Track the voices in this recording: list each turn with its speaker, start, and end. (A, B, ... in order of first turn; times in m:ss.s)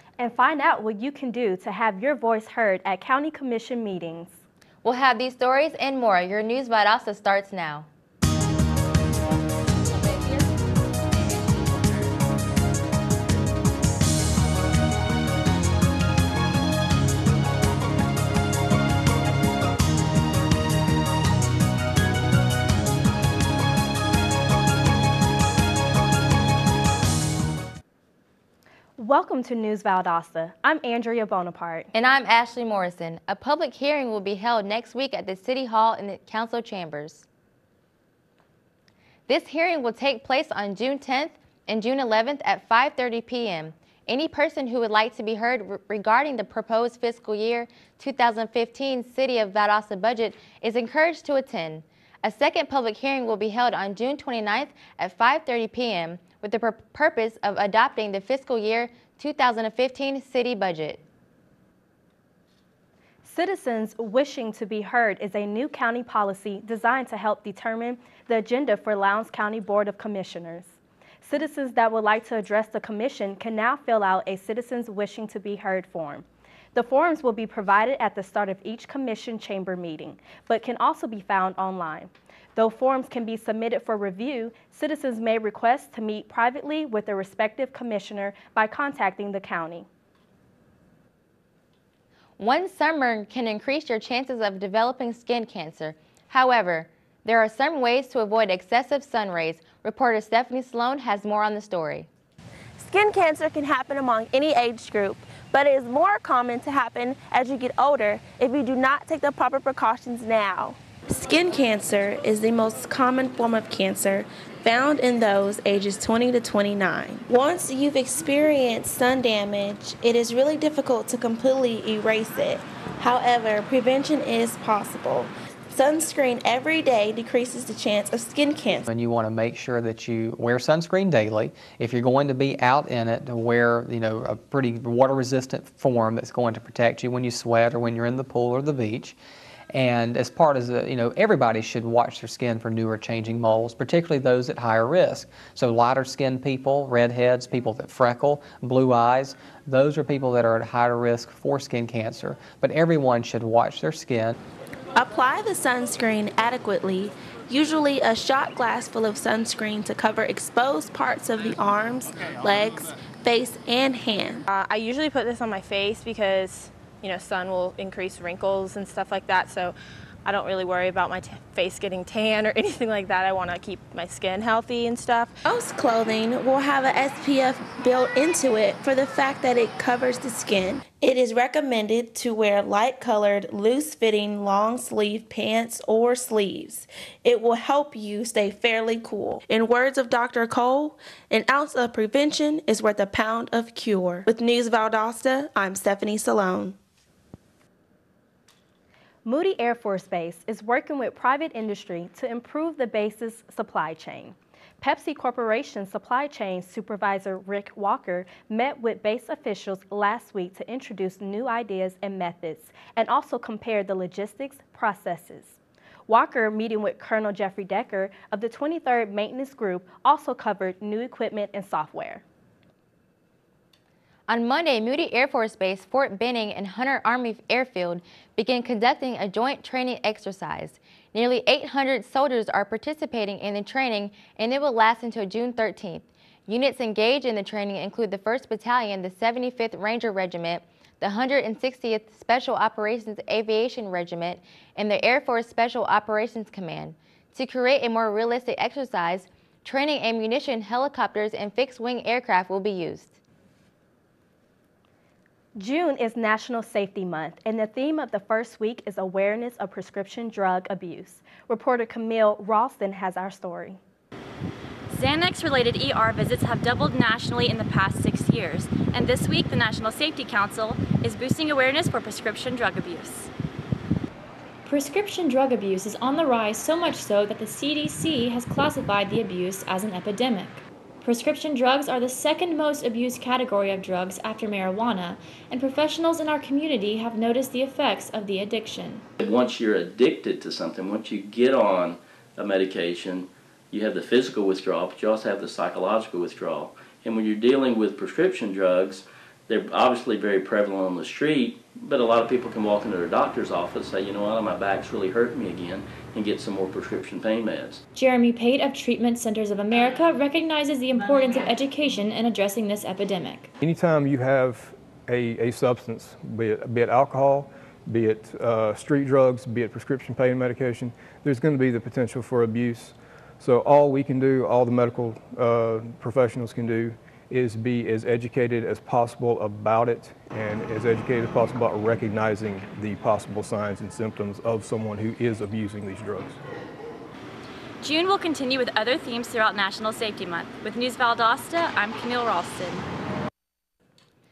0:00.2-0:04.4 A
0:04.8-0:07.9 B
0:29.0-0:31.9 A
0:31.9-0:37.3 B
0:39.3-1:01.0 B
1:03.2-1:29.9 A
1:32.4-1:42.1 B
1:42.8-2:08.9 C
2:08.9-2:19.2 D
2:19.7-2:34.4 D
2:35.0-2:44.5 C
2:44.5-2:55.4 E
2:55.4-3:16.8 C
3:19.2-3:42.2 A
3:44.3-4:13.2 B
4:15.6-4:23.8 A
4:24.9-4:33.3 F
4:34.6-4:49.1 G
4:49.2-5:07.8 H
5:08.0-5:13.5 G
5:13.6-5:36.4 I
5:37.8-5:42.9 F